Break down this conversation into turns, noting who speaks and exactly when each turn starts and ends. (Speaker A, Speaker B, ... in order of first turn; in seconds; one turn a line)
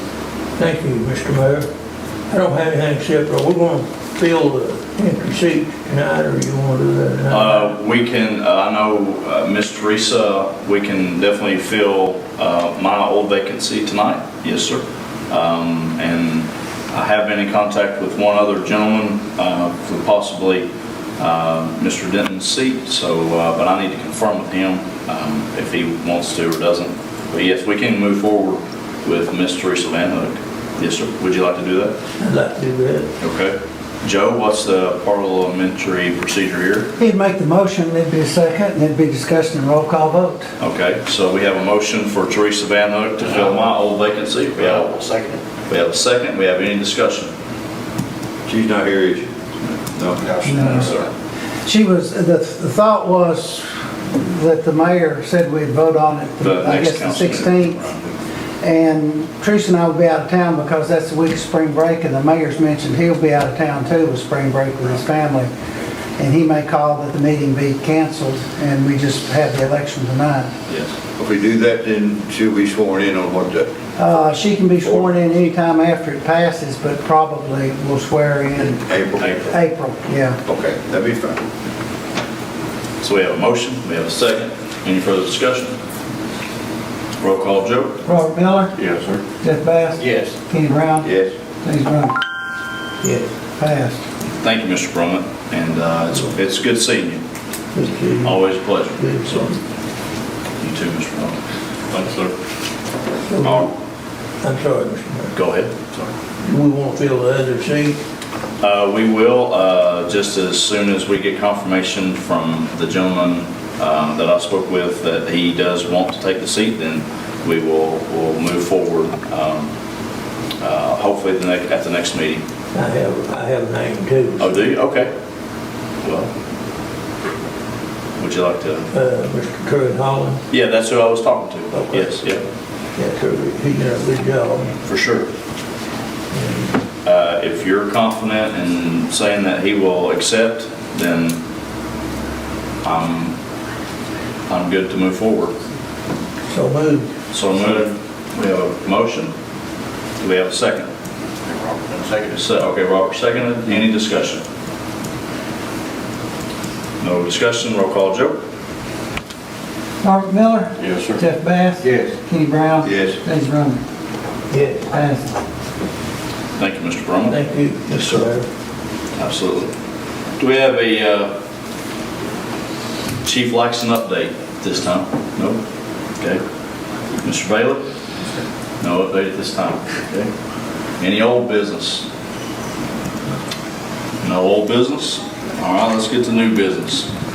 Speaker A: 0.6-1.7
Speaker A: 2.3-7.7
Speaker B: 7.3-32.0
Speaker A: 32.2-33.1
Speaker B: 33.2-36.9
Speaker C: 37.0-40.4
Speaker B: 40.6-45.0
Speaker D: 44.6-45.4
Speaker B: 45.7-47.3
Speaker E: 48.5-49.3
Speaker E: 50.0-50.3
Speaker D: 50.2-51.1
Speaker C: 50.4-50.9
Speaker C: 51.6-57.8
Speaker B: 56.4-58.1
Speaker C: 58.6-65.5
Speaker C: 66.2-70.5
Speaker B: 70.7-71.0
Speaker E: 71.2-73.7
Speaker C: 74.0-78.8
Speaker E: 74.8-75.1
Speaker E: 78.6-79.5
Speaker B: 79.2-79.6
Speaker C: 79.3-80.4
Speaker E: 80.5-81.4
Speaker B: 83.0-85.8
Speaker B: 87.2-88.0
Speaker C: 88.0-88.7
Speaker B: 88.8-89.2
Speaker C: 89.4-91.1
Speaker E: 91.0-91.3
Speaker C: 91.6-92.1
Speaker A: 93.0-93.3
Speaker C: 93.6-94.0
Speaker B: 94.4-97.2
Speaker A: 97.8-98.4
Speaker B: 98.2-99.5
Speaker A: 99.0-99.6
Speaker B: 100.6-101.4
Speaker B: 101.9-102.3
Speaker A: 103.2-103.7
Speaker B: 103.4-103.7
Speaker A: 104.4-105.3
Speaker B: 105.3-106.1
Speaker A: 106.4-108.0
Speaker B: 108.6-119.7
Speaker B: 120.6-122.4
Speaker A: 122.7-124.6
Speaker B: 124.4-125.1
Speaker B: 126.0-126.3
Speaker B: 128.2-128.9
Speaker A: 128.9-130.4
Speaker B: 130.5-132.4
Speaker A: 131.8-132.1
Speaker A: 133.0-134.7
Speaker B: 134.8-135.3
Speaker A: 136.3-136.8
Speaker B: 137.0-141.4
Speaker B: 142.8-143.4
Speaker B: 144.5-145.5
Speaker A: 146.5-147.1
Speaker B: 147.3-149.3
Speaker B: 150.2-150.9
Speaker D: 151.5-152.4
Speaker B: 152.3-154.4
Speaker B: 157.0-158.4
Speaker C: 160.0-163.8
Speaker B: 160.8-161.2
Speaker D: 161.8-162.1
Speaker E: 162.8-163.2
Speaker A: 164.5-164.9
Speaker C: 164.9-165.3
Speaker B: 166.6-167.4
Speaker A: 167.3-168.5
Speaker B: 167.9-168.3
Speaker B: 169.2-169.7
Speaker B: 170.4-171.3
Speaker B: 173.2-175.6
Speaker B: 177.2-177.8
Speaker B: 178.8-180.3
Speaker B: 181.0-182.1
Speaker B: 184.2-187.1